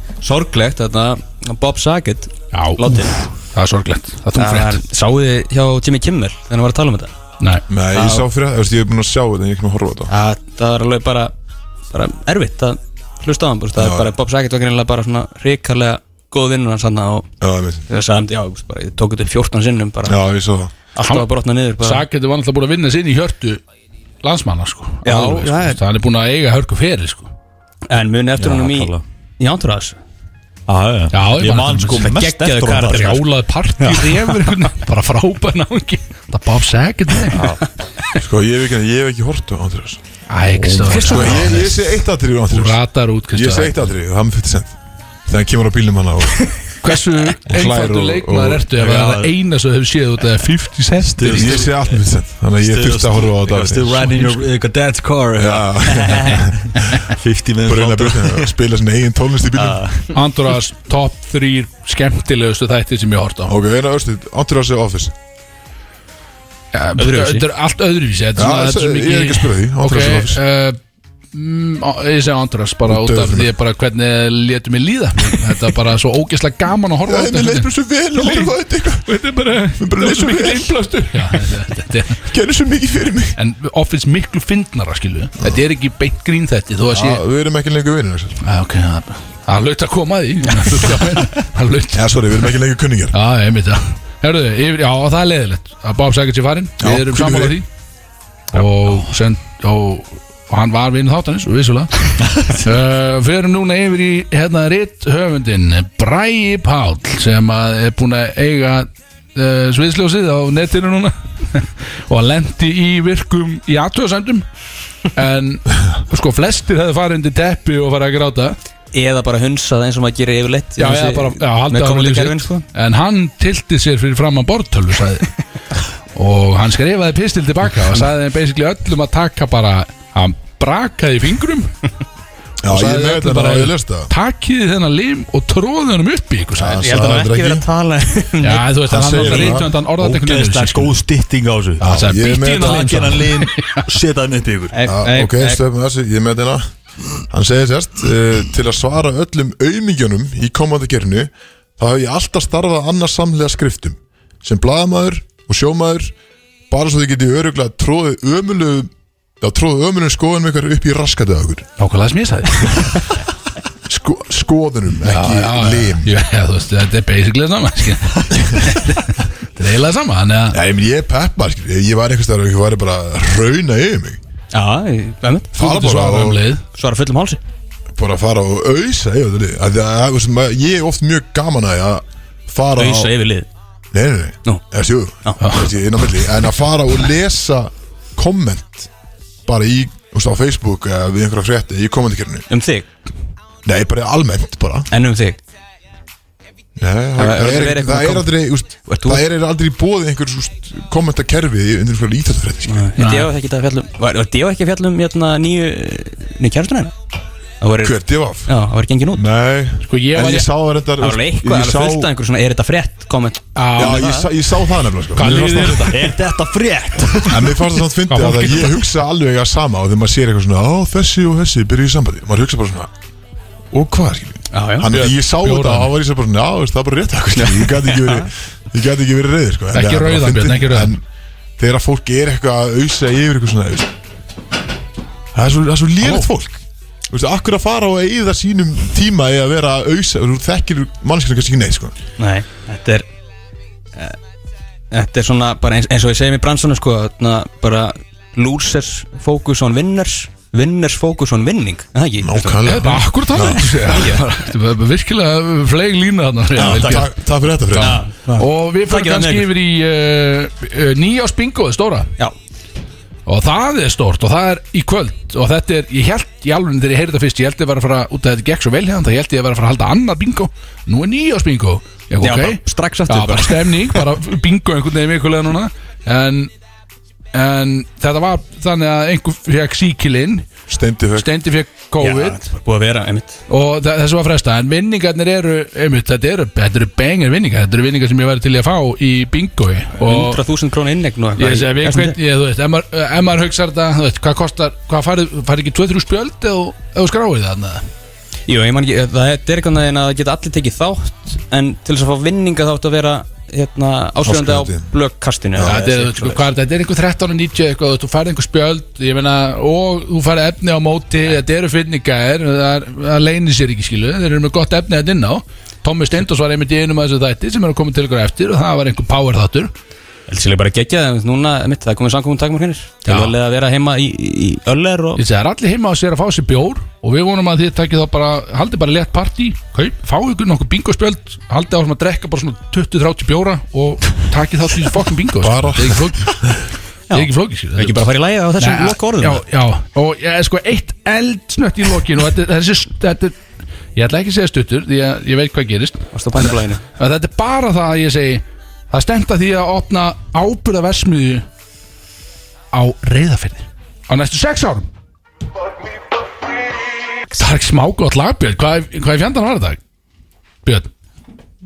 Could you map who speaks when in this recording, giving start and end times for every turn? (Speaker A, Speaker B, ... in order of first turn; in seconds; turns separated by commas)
Speaker A: 0.2-3.2, Speaker B: 2.5-4.8, Speaker A: 4.3-7.1, Speaker C: 7.7-10.1, Speaker A: 7.9-8.2, Speaker A: 10.1-11.3, Speaker A: 11.9-17.3, Speaker C: 13.8-14.2, Speaker C: 17.4-17.9, Speaker A: 17.9-20.2, Speaker C: 20.1-20.7, Speaker A: 20.9-22.0, Speaker B: 21.0-21.3, Speaker B: 21.8-23.6, Speaker B: 24.2-27.3, Speaker A: 25.0-25.8, Speaker A: 27.9-30.0, Speaker D: 28.4-29.0, Speaker D: 30.7-33.2, Speaker B: 31.1-32.1, Speaker A: 32.0-33.3, Speaker B: 32.9-37.5, Speaker A: 33.8-34.5, Speaker D: 37.3-37.6, Speaker C: 38.1-40.0, Speaker B: 40.3-41.9, Speaker D: 40.6-41.4, Speaker C: 40.9-42.8, Speaker B: 42.5-43.9, Speaker C: 43.3-44.7, Speaker C: 45.3-46.5, Speaker B: 46.8-51.6, Speaker C: 47.5-48.7, Speaker D: 48.8-49.3, Speaker D: 51.0-51.9, Speaker C: 51.2-54.4, Speaker D: 52.6-58.5, Speaker C: 55.4-56.9, Speaker C: 57.6-60.0, Speaker D: 59.5-60.0, Speaker B: 60.1-63.5, Speaker C: 63.5-65.1, Speaker B: 66.7-70.8, Speaker A: 67.0-67.4, Speaker C: 68.3-70.4, Speaker B: 71.3-82.3, Speaker C: 72.8-73.5, Speaker C: 77.1-79.1, Speaker C: 79.7-80.8, Speaker C: 82.2-83.3, Speaker B: 83.4-87.2, Speaker C: 86.9-88.4, Speaker B: 88.4-92.1, Speaker C: 91.9-93.2, Speaker B: 93.1-97.7, Speaker C: 96.8-97.6, Speaker B: 98.5-114.4, Speaker B: 115.1-118.6, Speaker A: 118.9-122.6, Speaker B: 120.8-125.3, Speaker B: 126.1-131.7, Speaker C: 132.6-134.1, Speaker B: 132.7-137.0, Speaker C: 136.5-137.7, Speaker A: 136.8-139.6, Speaker B: 138.4-140.9, Speaker C: 138.9-139.7, Speaker D: 139.9-144.8, Speaker C: 141.8-143.0, Speaker B: 141.8-143.9, Speaker A: 144.7-145.6, Speaker C: 144.8-146.7, Speaker C: 147.3-156.1, Speaker C: 156.7-161.7, Speaker B: 161.8-162.9, Speaker C: 163.8-166.2, Speaker B: 165.0-170.6, Speaker C: 170.5-174.2, Speaker A: 174.5-175.5, Speaker C: 175.5-176.4, Speaker B: 175.6-176.6, Speaker A: 176.7-177.4, Speaker C: 177.9-183.1, Speaker A: 182.8-183.5, Speaker C: 183.9-188.9, Speaker B: 185.4-185.7, Speaker C: 189.4-192.4, Speaker A: 192.5-192.8, Speaker C: 193.6-194.9, Speaker A: 194.9-195.4, Speaker C: 196.8-202.9, Speaker A: 197.2-198.3, Speaker A: 198.8-199.2, Speaker A: 202.7-206.9, Speaker B: 203.0-203.3, Speaker A: 207.6-209.2, Speaker C: 207.8-208.6, Speaker C: 209.1-212.1, Speaker B: 209.8-210.5, Speaker A: 211.0-214.3, Speaker B: 213.5-214.2, Speaker C: 213.7-216.0, Speaker B: 215.1-216.0, Speaker D: 215.7-217.6, Speaker C: 217.3-222.9, Speaker B: 218.1-218.8, Speaker C: 223.7-231.0, Speaker A: 224.5-224.9, Speaker B: 224.9-225.9, Speaker A: 227.3-228.3, Speaker B: 229.7-230.9, Speaker C: 231.6-233.9, Speaker C: 235.3-241.9, Speaker A: 242.2-243.1, Speaker A: 244.9-252.8, Speaker C: 252.2-253.8, Speaker B: 252.6-257.1, Speaker A: 253.9-254.3, Speaker C: 256.5-258.0, Speaker B: 257.7-262.1, Speaker A: 257.8-259.5, Speaker B: 263.2-276.5, Speaker A: 272.2-274.0, Speaker B: 277.3-280.5, Speaker C: 280.7-281.3, Speaker B: 281.2-282.4, Speaker A: 282.0-283.4, Speaker B: 283.5-290.4, Speaker A: 290.0-292.1, Speaker B: 291.4-297.8, Speaker A: 298.5-306.4, Speaker C: 304.2-304.9, Speaker C: 305.5-305.8, Speaker B: 305.6-319.7, Speaker A: 320.3-325.2, Speaker B: 323.1-323.3, Speaker B: 325.1-336.5, Speaker C: 335.4-336.4, Speaker A: 337.1-339.4, Speaker B: 337.1-338.1, Speaker B: 338.6-343.4, Speaker B: 343.9-351.4, Speaker A: 346.1-346.8, Speaker B: 352.7-354.9, Speaker B: 357.3-359.8